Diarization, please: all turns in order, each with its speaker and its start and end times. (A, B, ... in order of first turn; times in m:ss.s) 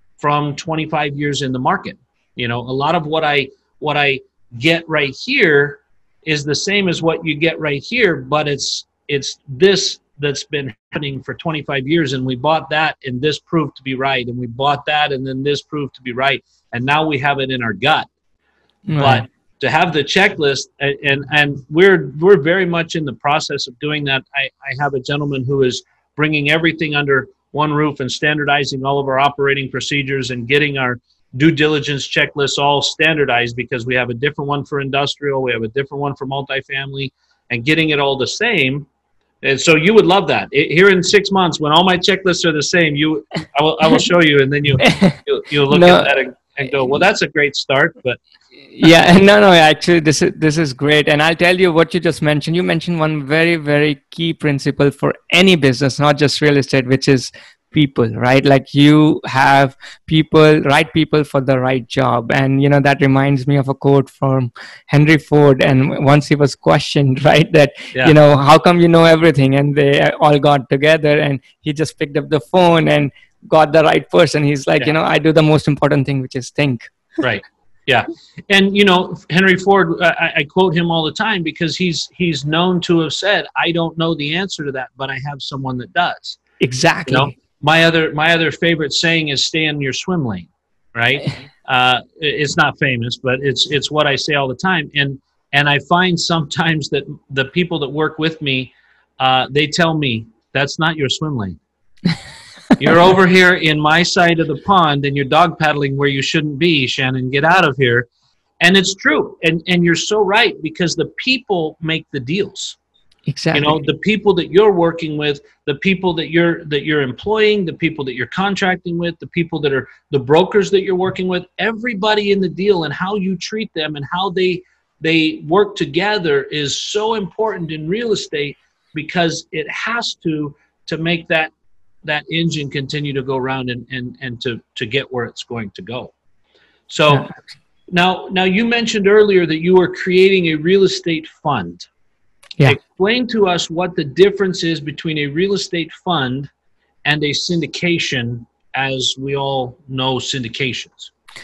0:00.2-0:18.1 A
0:18.9-0:19.2 B
0:19.0-0:38.9 A
0:39.4-0:48.2 A
0:44.8-0:45.2 B
0:45.7-0:46.2 B
0:48.8-1:16.9 B
1:17.2-1:26.4 A
1:26.6-1:27.3 B
1:27.1-1:41.6 A
1:42.8-1:48.1 A
1:48.6-1:52.8 A
1:53.3-1:53.8 B
1:53.5-2:11.5 A
2:12.0-2:16.1 A
2:16.9-2:17.3 A
2:17.1-2:17.4 B
2:17.9-2:21.9 A
2:22.6-2:26.5 A
2:27.0-2:31.1 A